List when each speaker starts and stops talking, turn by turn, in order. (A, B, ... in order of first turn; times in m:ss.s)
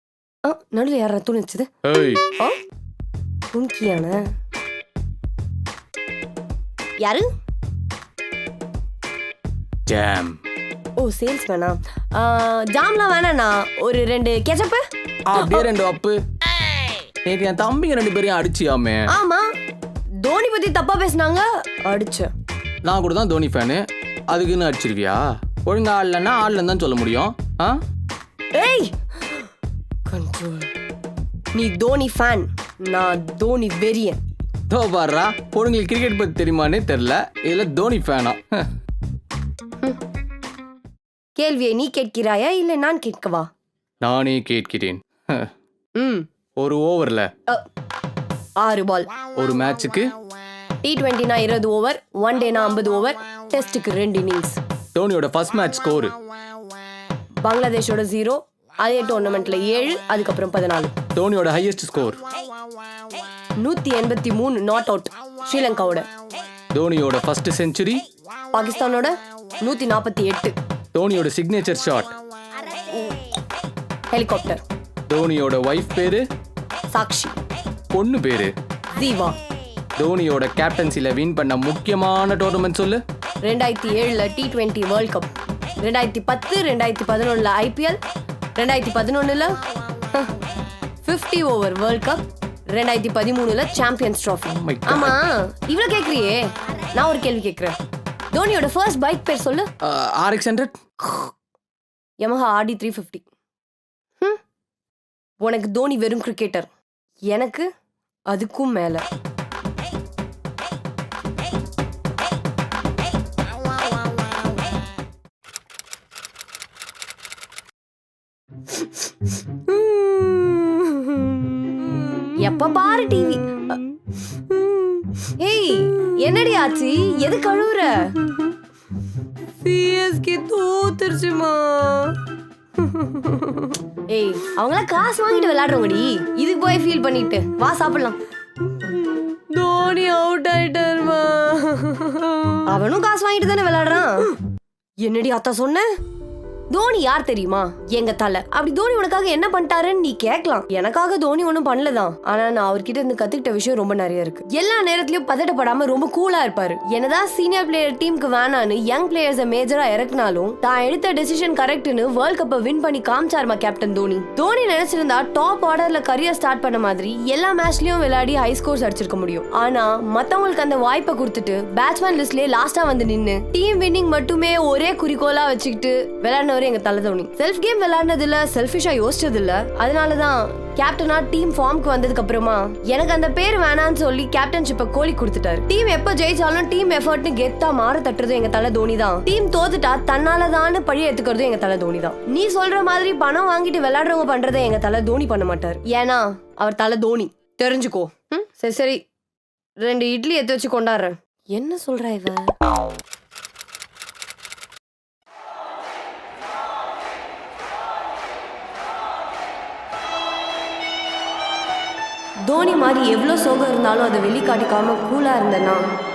0:00.4-0:01.7 A
0:01.8-0:02.2 B
0:03.5-0:04.2 A
0:07.0-0:07.3 A
0:09.8-0:10.4 B
0:11.0-0:14.8 A
0:15.3-0:16.2 B
0:15.4-0:15.6 A
0:17.2-0:19.1 B
0:19.1-0:19.5 A
0:20.2-0:22.3 A
0:22.8-0:27.8 B
0:28.5-0:29.5 A
0:30.1-0:30.7 A
0:31.6-0:34.2 A
0:34.7-0:38.7 B
0:41.4-0:43.5 A
0:44.0-0:45.5 B
0:46.0-0:46.3 A
0:46.6-0:47.3 B
0:48.6-0:49.1 A
0:49.3-0:50.1 B
0:50.8-0:54.6 A
0:55.0-0:56.2 B
0:57.4-1:00.9 A
1:01.1-1:02.2 B
1:03.6-1:06.0 A
1:06.7-1:08.0 B
1:08.5-1:10.5 A
1:10.9-1:12.1 B
1:12.9-1:13.2 A
1:14.1-1:14.6 A
1:15.1-1:16.2 B
1:16.9-1:17.4 A
1:17.9-1:18.5 B
1:18.9-1:19.4 A
1:20.0-1:23.0 B
1:23.4-1:25.3 A
1:25.8-1:28.0 A
1:28.6-1:29.6 A
1:31.0-1:32.2 A
1:32.7-1:37.8 A
1:34.5-1:35.2 B
1:38.3-1:39.7 A
1:39.8-1:40.8 B
1:42.2-1:43.2 A
1:45.4-1:46.7 A
1:47.3-1:47.7 A
1:48.3-1:49.0 A
1:59.6-2:08.4 A
2:09.6-2:12.2 A
2:12.8-2:18.2 A
2:18.7-2:24.4 A
2:25.0-2:25.9 A
2:26.7-3:19.0 A
3:19.8-3:22.5 A
3:32.5-3:35.8 A